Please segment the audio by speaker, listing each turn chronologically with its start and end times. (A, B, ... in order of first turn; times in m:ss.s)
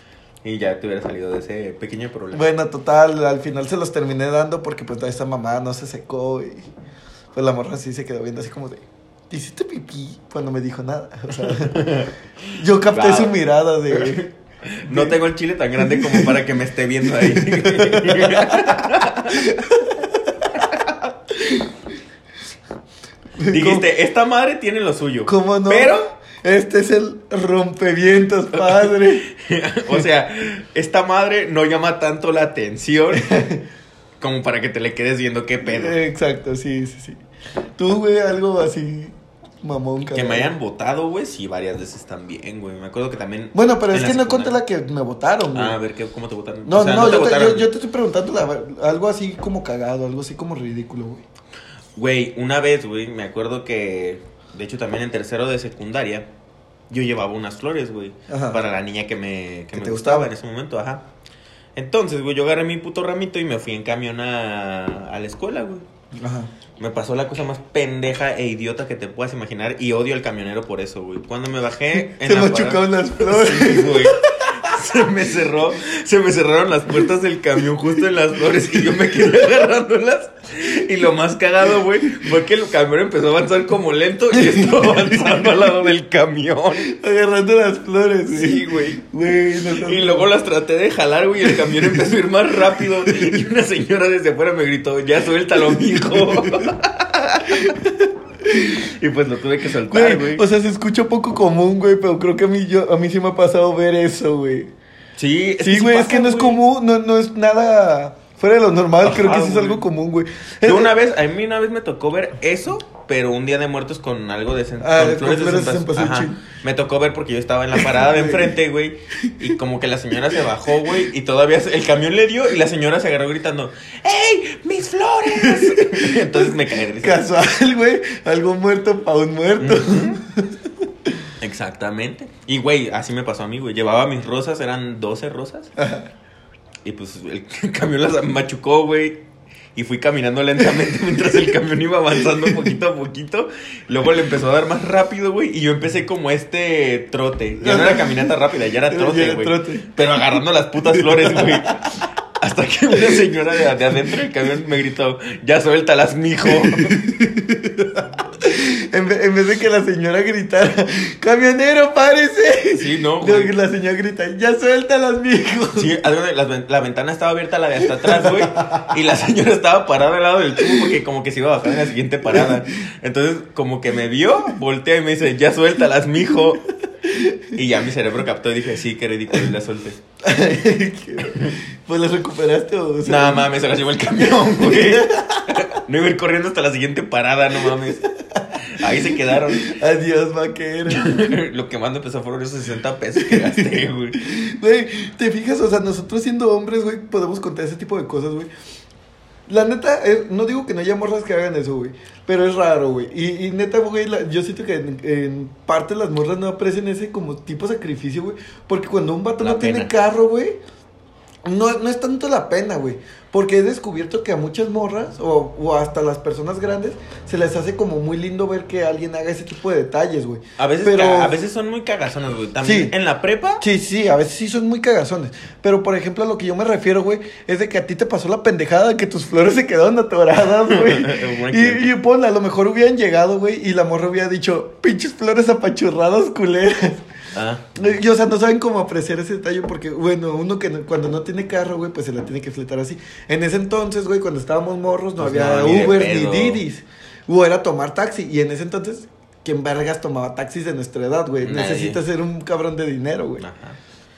0:00.4-0:02.5 A
0:02.3-0:06.7 B
0:07.3-0:11.8 B
0:11.4-0:13.4 A
0:12.5-0:14.3 B
0:13.9-0:19.5 A
0:14.9-0:15.2 B
0:15.8-0:16.4 B
0:17.1-0:20.5 B
0:20.5-0:21.0 A
0:21.3-0:21.7 B
0:23.4-0:23.9 B
0:23.5-0:26.1 A
0:25.2-0:29.3 B
0:28.5-0:33.4 A
0:33.1-0:33.6 B
0:34.2-0:36.0 A
0:35.6-0:37.2 B
0:37.8-0:40.5 B
0:40.1-0:44.6 A
0:43.5-0:45.8 B
0:45.5-0:47.7 A
0:46.6-0:51.2 B
0:52.0-0:56.3 A
0:56.9-1:01.0 A
0:58.3-0:58.6 B
0:59.7-1:00.3 B
1:01.8-1:05.8 A
1:06.2-1:06.5 B
1:06.8-1:26.9 A
1:11.9-1:14.9 B
1:18.8-1:19.5 B
1:24.3-1:25.7 B
1:26.8-1:30.3 B
1:28.3-1:29.0 A
1:29.7-1:37.8 A
1:31.4-1:32.0 B
1:33.0-1:33.4 B
1:35.7-1:36.7 B
1:37.5-1:38.9 B
1:38.6-1:40.4 A
1:39.9-1:44.7 B
1:45.2-1:46.6 A
1:45.6-1:50.9 B
1:49.0-1:49.8 A
1:50.6-2:07.2 A
1:54.8-1:56.4 B
1:57.7-1:58.6 B
2:05.3-2:11.2 B
2:09.6-2:10.2 A
2:11.4-2:15.7 A
2:15.8-2:16.1 B
2:16.8-2:37.1 A
2:22.2-2:22.7 B
2:27.6-2:29.9 B
2:30.9-2:31.8 B
2:33.0-2:33.3 B
2:36.4-2:45.9 B
2:42.7-2:43.5 A
2:45.7-2:56.7 A
2:47.8-2:48.9 B
2:52.2-2:52.6 B
2:57.0-2:57.5 B
2:57.5-3:00.0 A
3:00.2-3:03.5 B
3:01.2-3:01.5 A
3:03.0-3:08.0 A
3:04.2-3:05.7 B
3:07.7-3:11.3 B
3:08.6-3:09.7 A
3:10.9-3:14.2 A
3:13.2-3:18.5 B
3:19.5-3:30.6 B
3:29.4-3:29.9 A
3:31.4-3:41.4 B
3:40.6-3:43.6 A
3:42.6-3:42.9 B
3:43.6-3:57.0 B
3:50.6-3:51.9 A
3:57.3-3:57.7 A
3:57.7-4:13.4 B
4:05.2-4:06.6 A
4:11.4-4:12.0 A
4:13.4-4:13.8 A